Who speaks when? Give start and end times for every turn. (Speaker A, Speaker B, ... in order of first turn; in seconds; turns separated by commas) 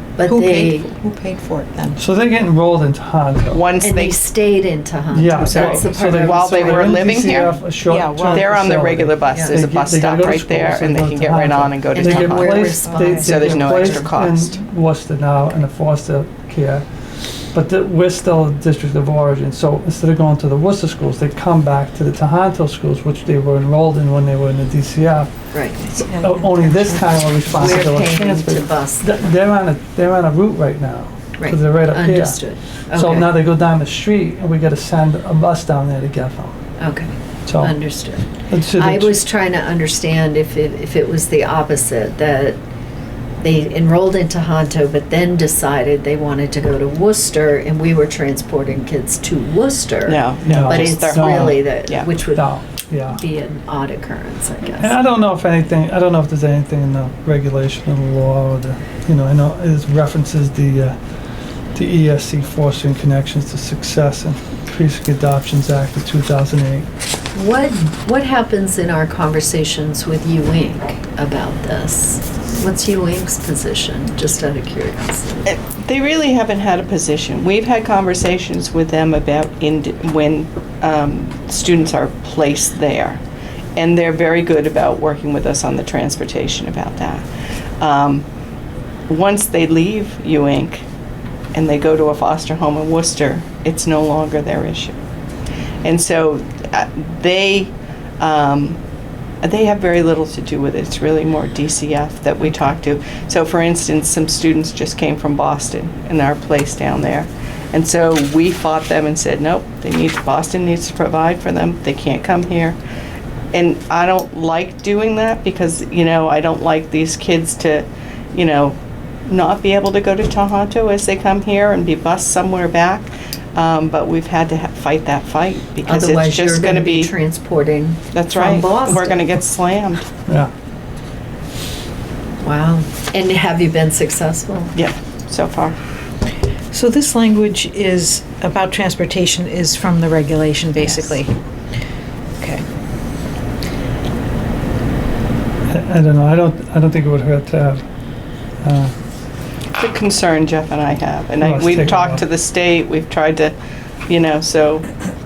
Speaker A: 0.2-0.9, Speaker B: 0.3-2.0, Speaker C: 2.0-3.6, Speaker D: 3.5-4.2, Speaker A: 3.8-7.5, Speaker C: 5.1-16.9, Speaker D: 5.5-7.6, Speaker B: 7.9-8.6, Speaker D: 8.3-14.6, Speaker A: 9.3-9.6, Speaker A: 11.9-14.1, Speaker B: 12.9-13.3, Speaker C: 17.5-25.3, Speaker A: 25.5-26.0, Speaker C: 25.9-36.5, Speaker B: 26.1-27.9, Speaker A: 27.5-29.2, Speaker A: 31.4-33.3, Speaker A: 36.8-42.6, Speaker C: 37.5-37.8, Speaker C: 38.5-39.2, Speaker A: 43.4-52.5, Speaker D: 50.1-52.1, Speaker C: 50.5-51.7, Speaker C: 52.3-53.2, Speaker A: 53.2-55.0, Speaker C: 54.8-61.0, Speaker C: 61.7-66.9, Speaker A: 67.3-75.5, Speaker D: 75.5-83.2, Speaker D: 83.8-87.2, Speaker D: 87.8-88.2, Speaker D: 89.1-90.8, Speaker D: 91.5-95.0, Speaker D: 95.8-98.8, Speaker D: 99.4-112.8, Speaker D: 113.5-118.8, Speaker D: 119.3-127.1, Speaker A: 125.9-129.2, Speaker D: 128.1-130.1, Speaker A: 132.4-134.7, Speaker D: 134.8-135.8, Speaker B: 136.7-141.3, Speaker D: 140.8-141.2, Speaker B: 142.4-142.7, Speaker C: 145.7-147.9, Speaker C: 148.6-148.9, Speaker D: 149.8-153.6, Speaker C: 151.4-152.2, Speaker D: 154.1-154.9